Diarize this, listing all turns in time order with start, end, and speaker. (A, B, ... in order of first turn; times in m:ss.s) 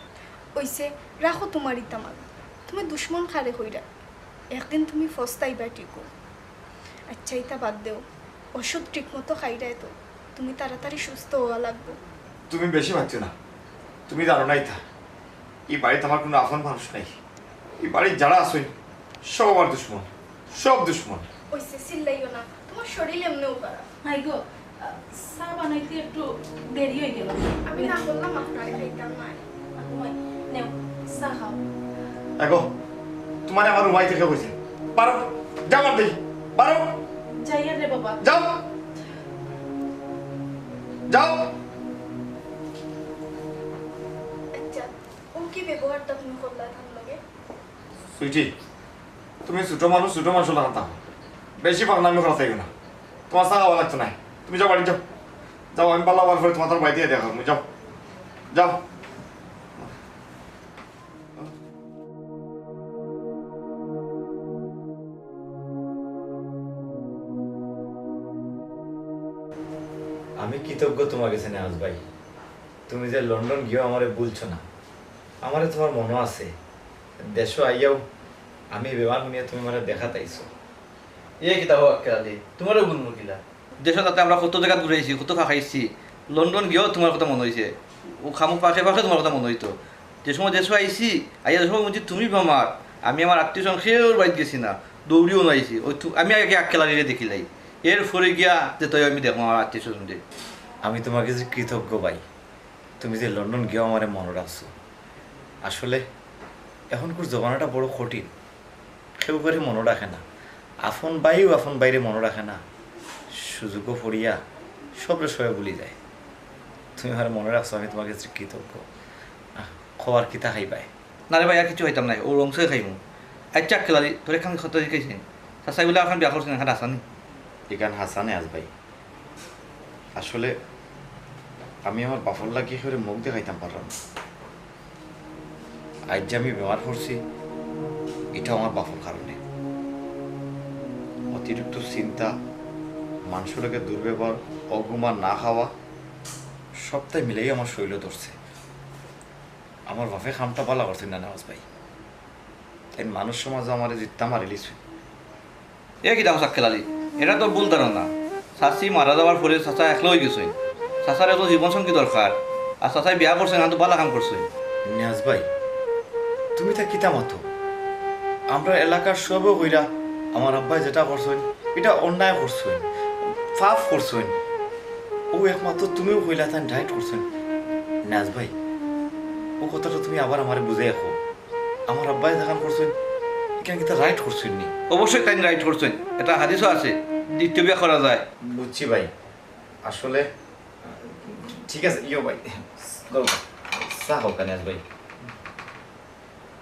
0:00.6-0:03.8 A
0:04.5-0:06.0 A
0:07.1-0:08.0 A
0:08.6-0:12.0 A
0:12.5-0:13.3 B
0:14.1-0:14.8 B
0:15.7-0:17.2 B
0:17.8-0:18.7 B
0:19.3-0:21.3 B
0:21.5-0:23.9 A
0:24.0-0:28.0 C
0:27.7-0:29.4 A
0:29.8-0:31.6 C
0:32.4-0:32.7 B
0:33.5-0:37.0 B
0:37.4-0:38.2 C
0:38.2-0:38.6 B
0:41.1-0:41.5 B
0:44.5-0:47.2 A
0:48.2-0:48.5 B
0:49.5-0:51.0 B
0:51.6-0:52.7 B
0:53.3-0:55.0 B
0:55.7-0:57.6 B
0:58.5-0:58.8 B
1:10.4-1:12.0 B
1:12.9-1:14.6 B
1:15.4-1:16.5 B
1:17.2-1:18.0 B
1:18.7-1:20.5 B
1:21.4-1:40.2 D
1:40.8-1:42.2 B
1:43.0-1:44.7 B
1:45.6-1:46.0 B
1:46.9-1:48.3 B
1:49.2-1:50.2 B
1:50.8-1:52.6 B
1:53.3-1:54.4 B
1:55.0-1:56.0 B
1:57.0-1:58.8 B
1:59.6-2:00.9 B
2:01.3-2:03.0 D
2:03.6-2:07.0 D
2:07.7-2:08.7 B
2:10.2-2:10.6 B
2:11.9-2:14.0 B
2:16.1-2:17.2 B
2:18.3-2:19.4 B
2:21.3-2:22.3 B
2:23.3-2:25.7 B
2:26.8-2:28.3 B
2:29.9-2:31.6 B
2:33.0-2:34.8 B
2:36.0-2:44.5 D
2:44.9-2:45.5 B
2:46.6-2:47.4 B
2:48.5-2:52.8 B
2:53.6-2:54.4 B
2:55.3-2:57.2 B
2:58.1-2:58.5 B
2:59.6-3:01.2 B
3:01.9-3:02.9 B
3:03.6-3:04.7 B
3:04.9-3:08.3 D
3:08.4-3:09.1 B
3:09.8-3:10.3 B
3:10.8-3:14.8 B